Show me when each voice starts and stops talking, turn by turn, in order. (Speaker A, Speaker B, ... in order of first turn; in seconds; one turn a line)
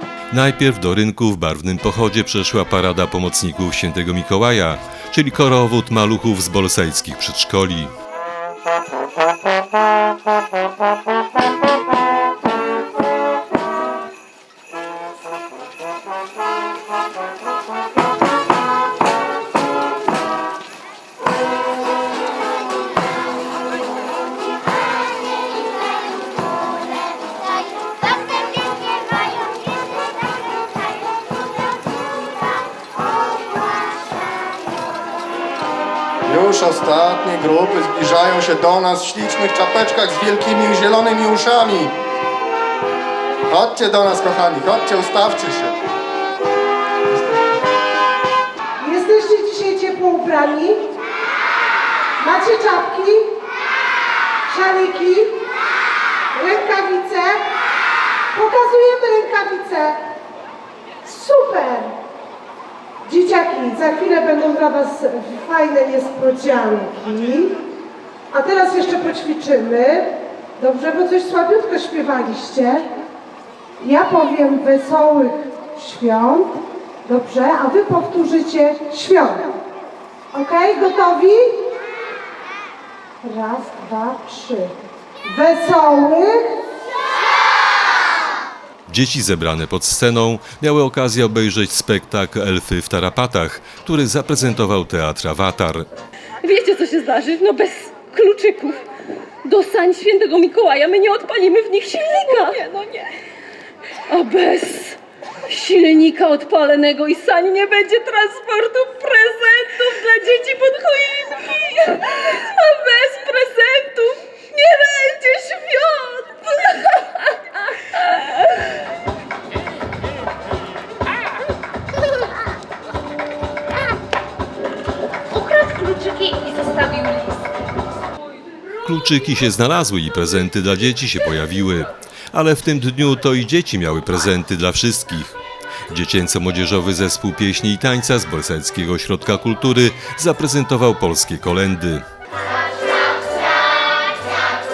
Speaker A: 0.3-7.9
Speaker B: 36.3-41.9
Speaker B: 43.5-45.8
Speaker C: 48.8-50.8
Speaker C: 52.2-53.3
Speaker C: 54.5-55.4
Speaker C: 56.4-57.4
Speaker C: 58.3-60.0
Speaker C: 61.0-61.9
Speaker C: 63.0-67.6
Speaker C: 68.3-72.8
Speaker C: 73.8-79.5
Speaker C: 80.3-81.5
Speaker C: 83.2-84.7
Speaker C: 85.3-86.5
Speaker A: 88.9-95.9
Speaker D: 96.4-98.8
Speaker D: 99.5-103.1
Speaker D: 104.1-105.0
Speaker D: 105.5-117.3
Speaker D: 125.4-125.7
Speaker D: 126.2-126.8
Speaker A: 128.8-135.4
Speaker A: 135.9-142.1